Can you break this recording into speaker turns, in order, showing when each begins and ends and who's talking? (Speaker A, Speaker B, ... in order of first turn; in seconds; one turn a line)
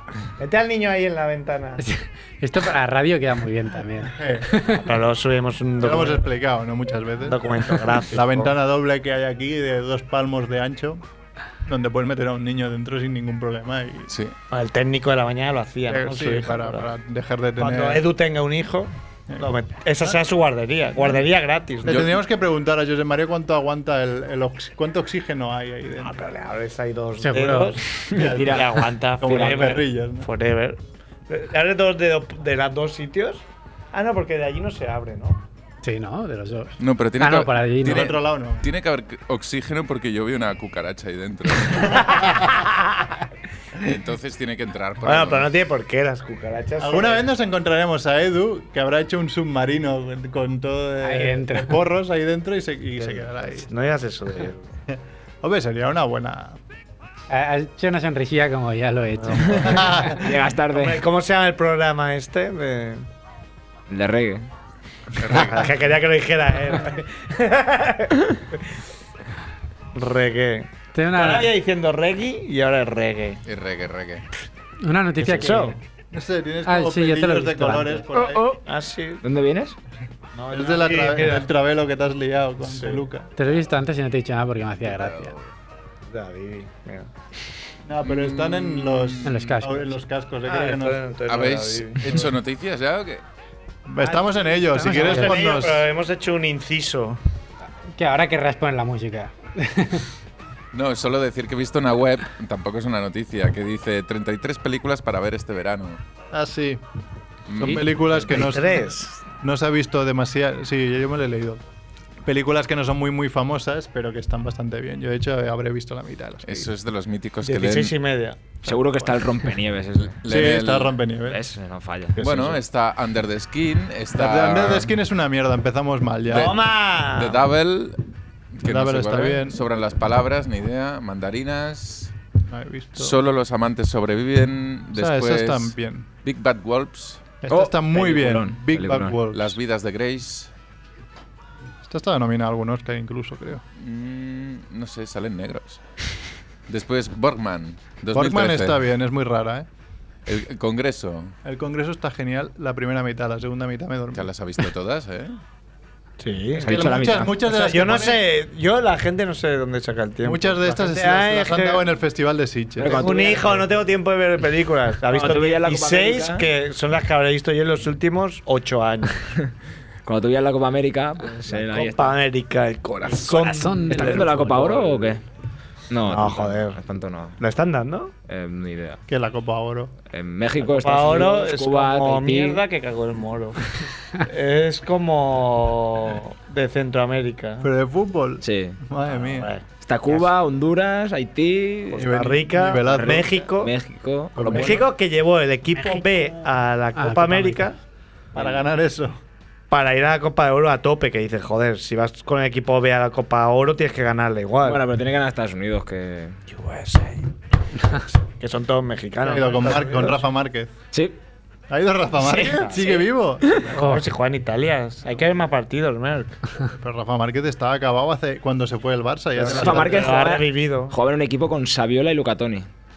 Speaker A: 0.3-1.9
Speaker B: 1.8-4.9
Speaker C: 4.0-4.5
Speaker A: 4.7-6.3
Speaker C: 5.8-7.5
Speaker A: 7.2-8.5
Speaker C: 8.1-11.0
Speaker C: 11.7-14.2
Speaker D: 14.1-14.3
Speaker A: 14.5-16.9
Speaker C: 15.9-18.0
Speaker A: 17.6-22.1
Speaker C: 21.9-26.2
Speaker A: 26.0-35.4
Speaker B: 27.2-27.8
Speaker E: 28.1-29.7
Speaker C: 28.1-28.7
Speaker C: 29.2-30.3
Speaker B: 35.8-38.1
Speaker D: 36.8-42.4
Speaker C: 37.8-38.7
Speaker D: 43.8-45.5
Speaker A: 45.0-47.3
Speaker C: 46.8-53.7
Speaker B: 51.0-51.8
Speaker A: 53.0-54.7
Speaker C: 54.9-56.6
Speaker B: 57.3-60.0
Speaker A: 59.2-63.1
Speaker C: 59.4-60.2
Speaker E: 59.5-61.0
Speaker E: 63.9-64.5
Speaker D: 65.2-65.7
Speaker A: 65.3-68.6
Speaker A: 69.9-73.4
Speaker B: 70.9-71.5
Speaker D: 73.5-74.2
Speaker B: 74.8-75.8
Speaker A: 75.2-75.8
Speaker C: 76.1-78.4
Speaker B: 76.7-78.0
Speaker E: 78.1-78.6
Speaker A: 78.7-79.2
Speaker E: 79.2-79.8
Speaker A: 80.3-81.5
Speaker C: 80.5-83.3
Speaker A: 82.7-83.0
Speaker B: 83.4-85.3
Speaker D: 84.8-85.4
Speaker A: 86.1-87.1
Speaker C: 87.9-91.1
Speaker D: 88.0-89.3
Speaker B: 89.2-89.9
Speaker A: 90.5-92.2
Speaker D: 91.3-93.2
Speaker C: 93.9-95.9
Speaker A: 94.0-97.2
Speaker B: 94.8-95.4
Speaker B: 97.9-100.1
Speaker D: 100.7-106.0
Speaker C: 106.3-106.8
Speaker D: 107.5-108.2
Speaker C: 107.6-111.6
Speaker A: 108.3-109.2
Speaker C: 112.2-116.7
Speaker D: 116.5-118.0
Speaker A: 117.4-118.8
Speaker E: 118.6-120.2
Speaker D: 120.2-121.0
Speaker C: 120.3-121.4
Speaker E: 121.3-122.2
Speaker A: 122.2-122.6
Speaker D: 122.2-124.9
Speaker C: 124.1-126.5
Speaker D: 126.3-128.0
Speaker A: 126.3-127.4
Speaker D: 128.6-132.1
Speaker C: 128.6-129.6
Speaker C: 132.5-133.2
Speaker D: 133.0-137.4
Speaker C: 134.9-136.1
Speaker C: 137.4-139.6
Speaker E: 137.5-139.2
Speaker D: 139.3-140.5
Speaker C: 141.8-143.6
Speaker D: 143.8-145.8
Speaker D: 146.7-148.8
Speaker C: 148.1-149.7
Speaker D: 150.3-151.3
Speaker C: 151.4-154.3
Speaker D: 154.1-155.4
Speaker A: 156.2-161.9
Speaker E: 156.6-157.3
Speaker C: 156.6-158.2
Speaker C: 160.2-163.6
Speaker E: 162.8-163.6
Speaker A: 162.9-169.4
Speaker E: 165.1-166.5
Speaker E: 170.1-172.2
Speaker A: 171.4-174.5
Speaker E: 173.1-175.2
Speaker B: 173.4-174.8
Speaker E: 175.9-177.4
Speaker A: 176.1-176.8
Speaker A: 177.4-178.1
Speaker E: 178.3-179.0
Speaker C: 179.1-179.9
Speaker E: 180.1-182.6
Speaker A: 180.6-187.7
Speaker C: 187.6-189.5
Speaker E: 188.4-188.8
Speaker A: 189.1-190.3
Speaker E: 189.8-192.1
Speaker A: 191.9-193.7
Speaker C: 191.9-193.4
Speaker E: 192.9-194.9
Speaker C: 194.4-194.8
Speaker A: 194.5-197.8
Speaker B: 197.0-197.7
Speaker C: 198.3-199.2
Speaker A: 199.7-204.8
Speaker E: 204.6-206.4
Speaker A: 206.5-207.3
Speaker A: 207.9-210.2
Speaker C: 209.2-210.7
Speaker C: 211.7-214.0
Speaker A: 212.2-213.1
Speaker A: 213.6-216.4
Speaker B: 213.8-214.1
Speaker C: 216.7-220.3
Speaker A: 219.4-220.9
Speaker E: 219.5-222.7